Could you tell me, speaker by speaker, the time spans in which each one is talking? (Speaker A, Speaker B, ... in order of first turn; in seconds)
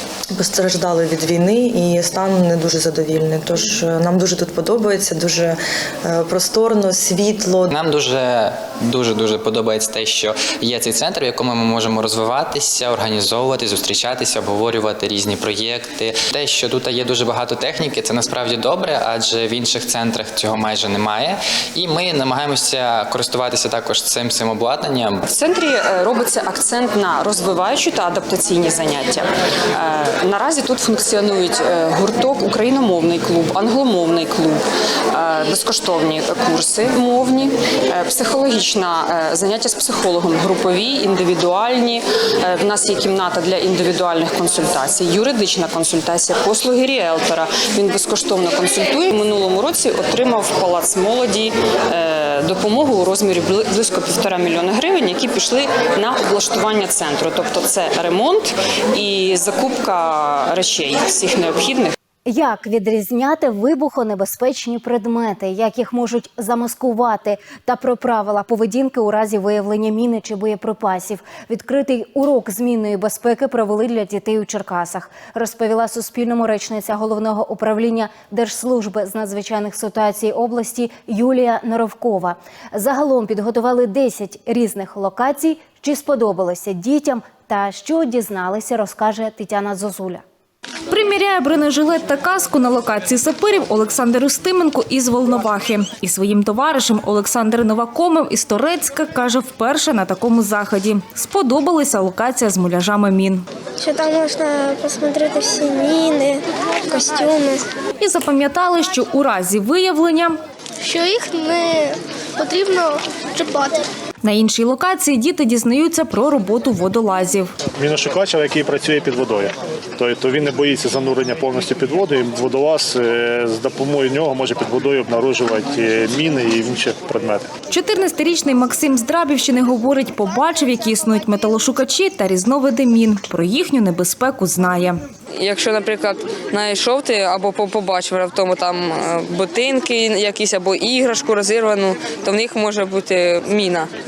Speaker A: 0.4-7.7
Speaker B: 7.7-25.2
Speaker C: 25.3-34.6, 35.1-61.9
Speaker D: 62.3-90.2
Speaker E: 90.9-103.5, 108.0-110.4, 114.2-117.5, 127.7-135.0
Speaker F: 103.8-107.6, 110.8-113.8
Speaker G: 117.8-127.5
Speaker H: 135.3-143.8